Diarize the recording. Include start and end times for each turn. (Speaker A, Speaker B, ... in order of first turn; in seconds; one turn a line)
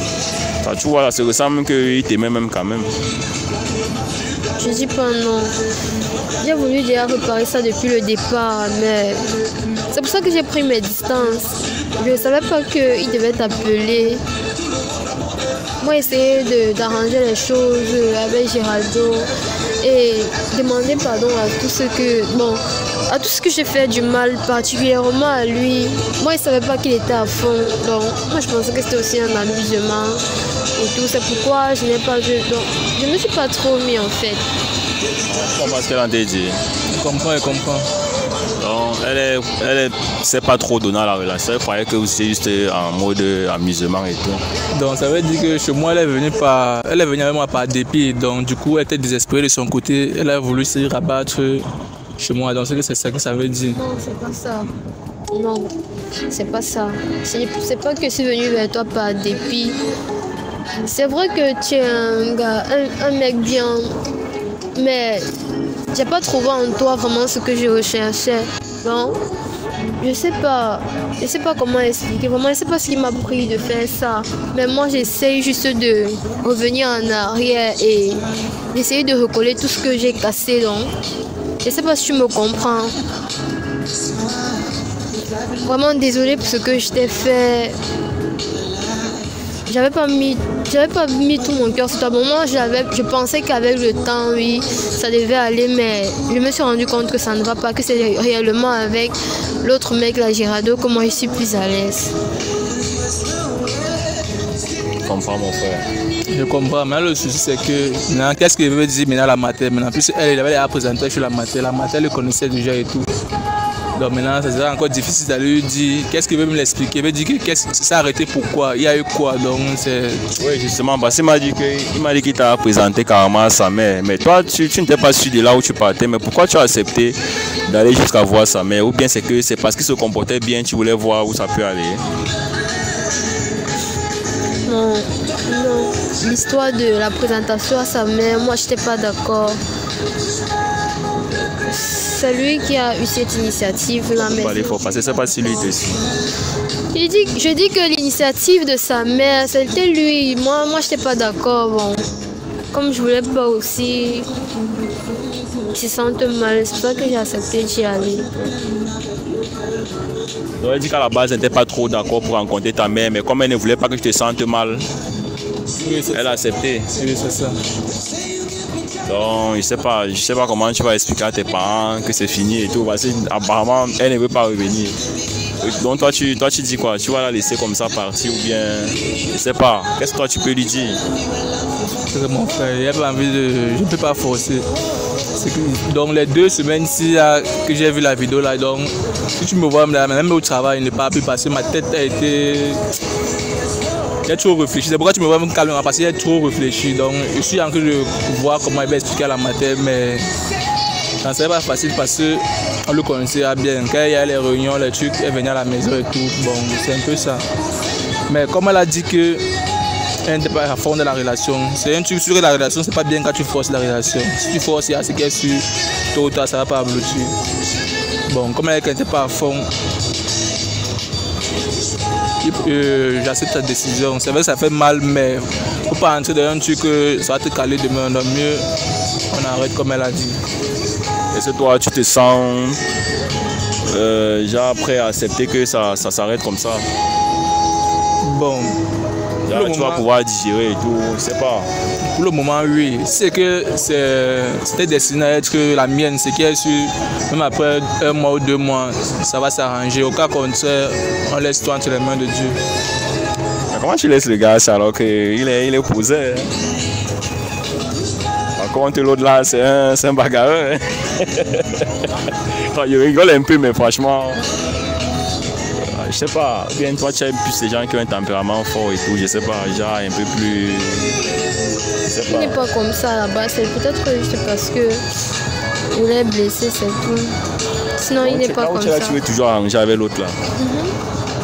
Speaker A: 0.6-2.9
Speaker B: 4.6-5.5
Speaker B: 6.4-9.2
Speaker B: 9.9-14.2
Speaker B: 15.8-19.3
Speaker B: 19.8-30.2
Speaker B: 30.8-34.5
Speaker A: 35.3-36.6
Speaker C: 36.9-37.9
Speaker A: 38.6-44.4
Speaker C: 44.7-51.7
Speaker C: 52.2-53.8
Speaker B: 53.7-54.7
Speaker B: 55.3-55.7
Speaker B: 56.3-59.8
Speaker B: 60.8-63.9
Speaker B: 64.8-65.3
Speaker B: 65.9-69.2
Speaker B: 70.0-80.9
Speaker B: 81.6-82.9
Speaker B: 85.6-87.8
Speaker B: 89.7-102.1
Speaker A: 105.0-105.9
Speaker C: 106.3-113.1
Speaker C: 114.0-120.3
Speaker A: 120.4-127.2
Speaker A: 127.7-132.0
Speaker B: 134.7-139.6
Speaker B: 141.7-144.8
Speaker A: 144.2-146.0
Speaker B: 146.9-152.0
Speaker B: 152.7-154.3
Speaker B: 155.7-158.3
Speaker A: 160.6-164.9
Speaker C: 165.8-167.6
Speaker A: 166.1-166.9
Speaker A: 169.1-175.0
Speaker A: 175.6-181.0
Speaker C: 182.1-184.7
Speaker C: 185.3-192.8
Speaker C: 194.2-200.3
Speaker C: 201.2-207.4
Speaker C: 208.3-209.5
Speaker C: 210.2-217.3
Speaker C: 218.3-219.7
Speaker C: 222.4-228.7
Speaker C: 229.3-230.4
Speaker A: 231.3-232.8
Speaker A: 233.9-236.9
Speaker C: 238.2-238.8
Speaker A: 239.5-241.7
Speaker C: 239.5-240.0
Speaker C: 242.1-252.6
Speaker A: 253.7-256.5
Speaker A: 258.6-264.4
Speaker A: 265.8-271.2
Speaker A: 272.1-272.6
Speaker B: 272.3-275.0
Speaker B: 275.9-277.4
Speaker B: 278.0-279.2
Speaker A: 278.2-280.4
Speaker B: 280.6-280.9